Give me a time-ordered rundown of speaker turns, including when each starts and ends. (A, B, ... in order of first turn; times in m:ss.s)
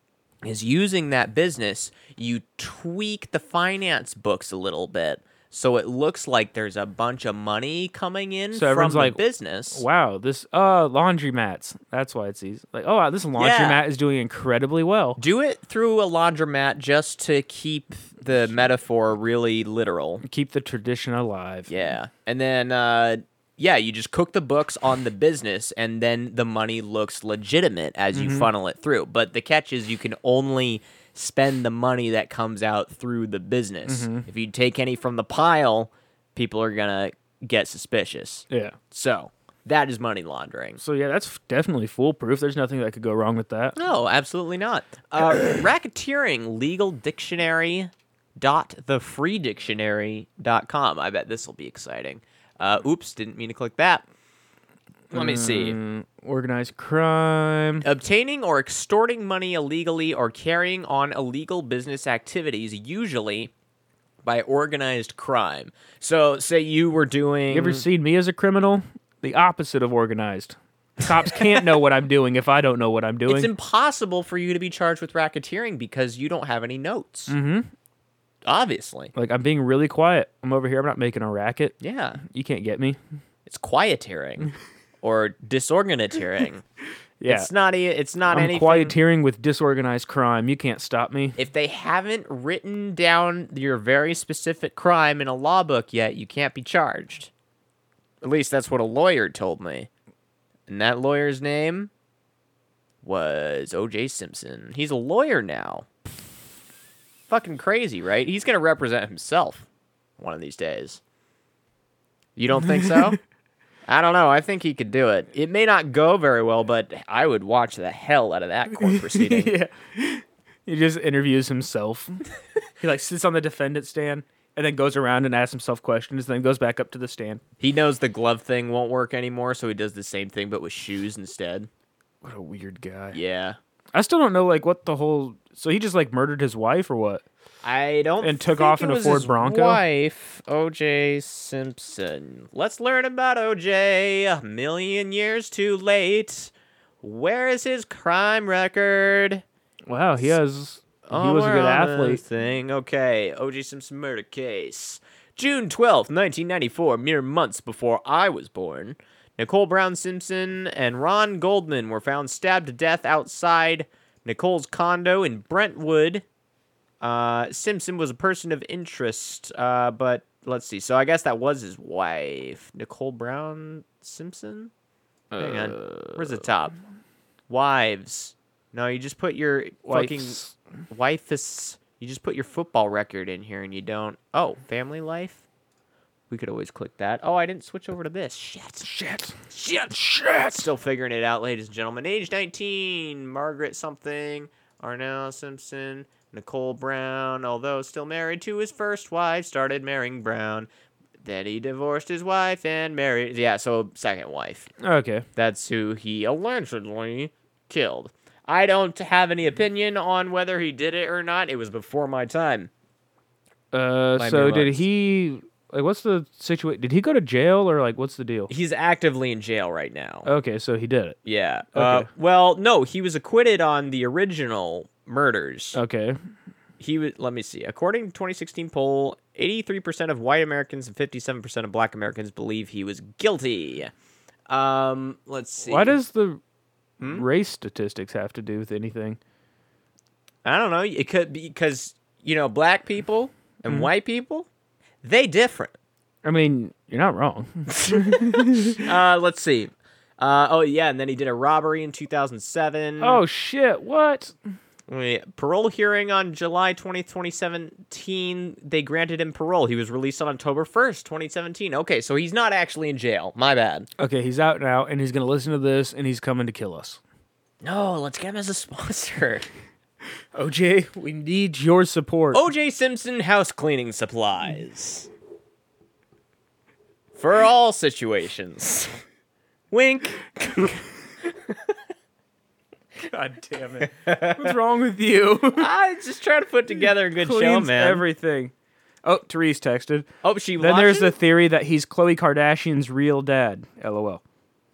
0:00.4-0:09.8 A
0:08.5-0:09.2 B
0:09.7-0:15.2 B
0:13.4-0:13.8 A
0:15.2-0:20.2 A
0:20.2-0:21.7 B
0:21.7-0:40.8 A
0:28.1-0:28.5 B
0:33.9-0:34.2 B
0:38.5-0:38.8 B
0:40.8-0:43.8 B
0:43.8-0:54.0 A
0:55.1-0:57.8 B
0:55.1-0:55.8 A
0:57.8-1:03.5 A
1:04.2-1:07.8 A
1:07.5-1:13.5 B
1:13.3-1:17.3 A
1:17.3-1:17.7 B
1:18.4-1:19.1 A
1:19.1-1:23.0 B
1:21.8-1:22.2 A
1:23.4-1:24.5 A
1:25.0-1:26.6 A
1:27.2-1:27.5 B
1:27.3-1:28.9 A
1:28.3-1:31.4 B
1:31.4-1:37.3 A
1:38.2-1:39.9 A
1:40.7-1:41.9 A
1:43.0-1:45.9 A
1:47.3-1:49.6 A
1:50.2-1:51.0 A
1:52.4-1:53.2 A
1:53.9-1:59.5 A
1:58.8-2:02.2 B
2:02.8-2:07.4 B
2:07.6-2:11.7 A
2:12.2-2:13.2 B
2:13.1-2:13.6 A
2:13.9-2:17.2 B
2:17.6-2:26.5 A
2:18.2-2:19.8 B
2:27.0-2:29.4 A
2:29.9-2:32.2 B
2:31.0-2:46.2 A
2:47.0-2:54.7 A
2:55.3-2:56.4 B
2:55.4-2:56.7 A
2:57.5-3:00.4 A
2:59.9-3:00.5 B
3:00.9-3:05.4 A
3:06.3-3:08.9 A
3:08.8-3:09.4 B
3:09.5-3:09.9 A
3:09.9-3:10.7 B
3:10.5-3:20.7 A
3:21.2-3:24.7 A
3:24.8-3:25.2 B
3:25.4-3:32.7 A
3:33.7-3:38.5 B
3:34.2-3:34.8 A
3:38.5-3:40.3 A
3:40.2-3:41.2 B
3:41.2-3:45.8 A
3:41.7-3:42.1 B
3:45.7-3:46.2 B
3:46.8-3:53.9 A
3:54.5-3:56.0 A
3:55.6-3:56.4 B
3:57.0-3:57.2 A
3:57.0-3:59.2 B
4:00.4-4:04.5 A
4:05.0-4:05.7 A
4:06.2-4:08.8 B
4:07.9-4:13.2 A
4:13.0-4:14.3 B
4:14.9-4:23.9 A
4:24.0-4:27.0 B
4:27.6-4:29.4 A
4:30.3-4:32.4 B
4:32.3-4:35.1 A
4:37.2-4:39.0 A
4:39.7-4:40.8 A
4:43.0-4:45.7 B
4:43.9-4:44.5 A
4:45.6-4:48.0 A
4:47.2-4:48.5 B
4:49.0-4:50.1 B
4:50.2-4:51.1 A
4:50.6-4:54.2 B